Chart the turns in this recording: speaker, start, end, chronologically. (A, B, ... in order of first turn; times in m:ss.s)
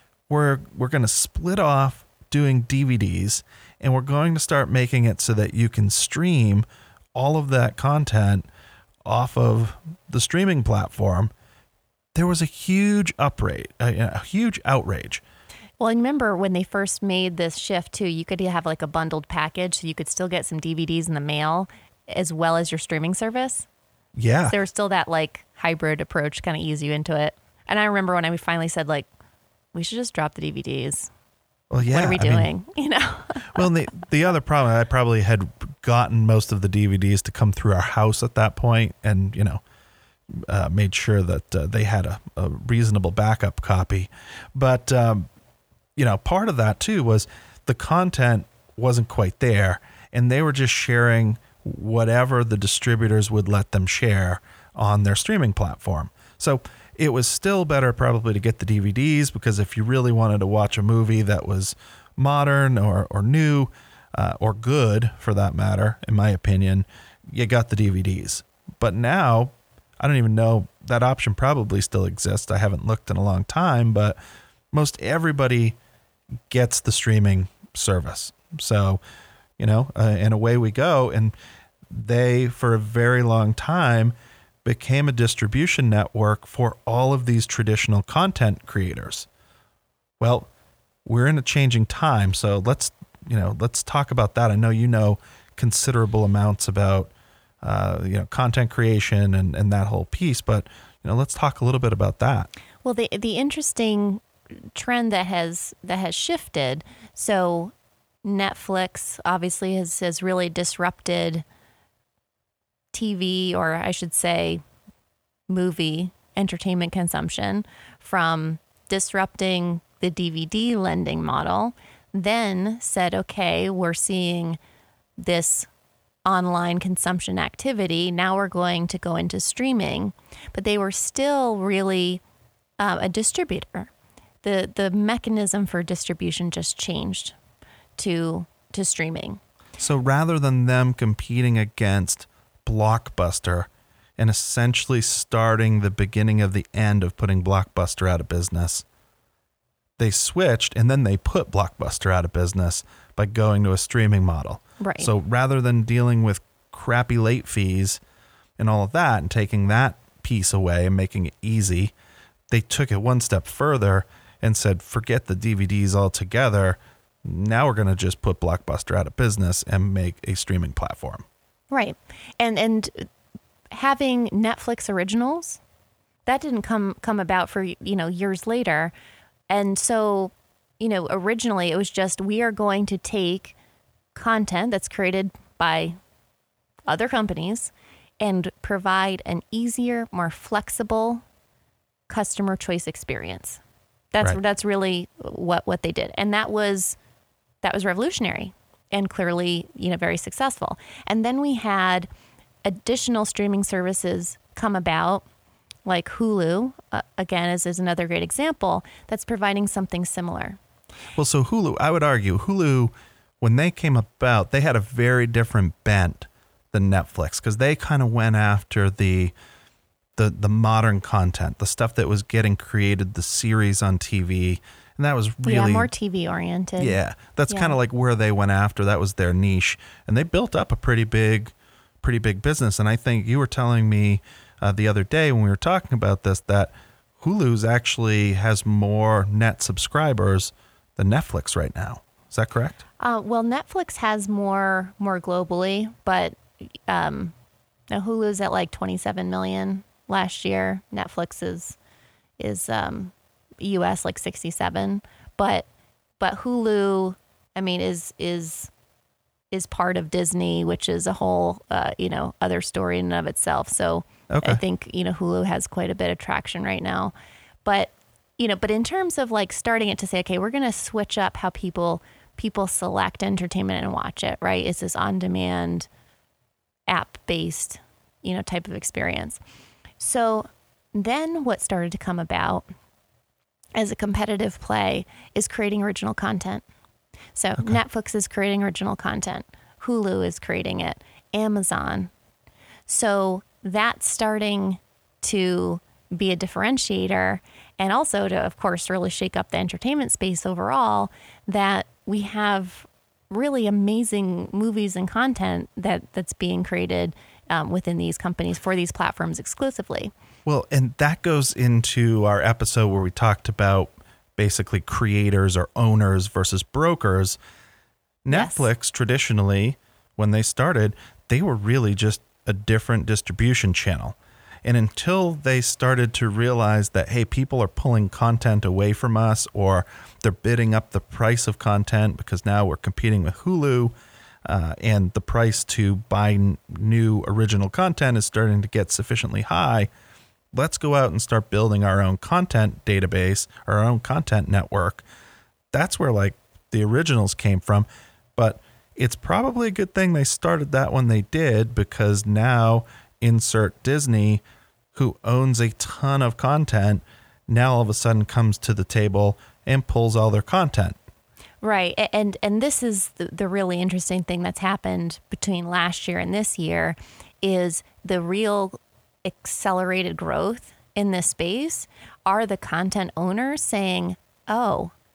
0:00.3-0:08.5 A
0:09.0-0:11.3 A
0:12.2-0:15.2 A
0:15.8-0:23.7 B
0:24.2-0:24.6 A
0:24.5-0:29.1 B
0:29.7-0:31.1 B
0:31.7-0:32.5 A
0:31.9-0:33.7 B
0:33.5-0:39.6 A
0:40.3-0:45.3 A
0:46.0-1:14.2 A
1:14.7-1:15.8 A
1:16.5-1:19.0 A
1:19.6-1:21.3 A
1:21.9-1:29.3 A
1:30.2-1:30.5 A
1:31.0-1:37.1 A
1:37.6-1:42.5 A
1:42.8-1:51.4 B
1:52.9-1:54.6 B
1:55.5-2:04.6 B
2:05.2-2:05.7 B
2:06.3-2:12.2 B
2:12.8-2:13.9 B
2:14.4-2:17.4 B
2:18.0-2:19.4 B
2:19.8-2:28.8 A
2:30.0-2:38.0 A
2:34.8-2:35.1 B
2:38.6-2:41.9 A
2:42.5-2:51.2 A
2:51.7-2:53.1 B
2:53.7-2:55.6 B
2:56.3-2:58.9 B
2:59.5-3:03.6 B
3:04.2-3:06.0 B
3:06.9-3:11.2 B
3:12.1-3:13.6 B
3:14.1-3:17.0 B
3:17.6-3:22.1 B
3:22.6-3:25.2 B
3:25.9-3:30.6 B
3:31.2-3:39.3 A
3:40.2-3:45.9 A
3:45.4-3:47.0 B
3:46.8-4:02.8 A
3:47.5-3:47.8 B
4:03.0-4:07.3 B
4:07.9-4:11.8 B
4:12.4-4:15.7 B
4:16.2-4:18.7 B
4:19.5-4:27.1 B
4:24.3-4:24.6 A
4:27.6-4:35.9 B
4:36.9-4:39.4 B
4:40.0-4:42.6 B
4:43.8-4:46.6 B
4:47.4-4:52.1 B
4:52.9-5:10.1 B
5:10.5-5:17.4 A
5:18.2-5:33.9 A
5:18.3-5:18.7 B
5:34.4-5:39.9 A
5:40.5-5:45.0 A
5:45.7-5:54.4 A
5:54.9-6:01.0 A
6:01.6-6:14.9 B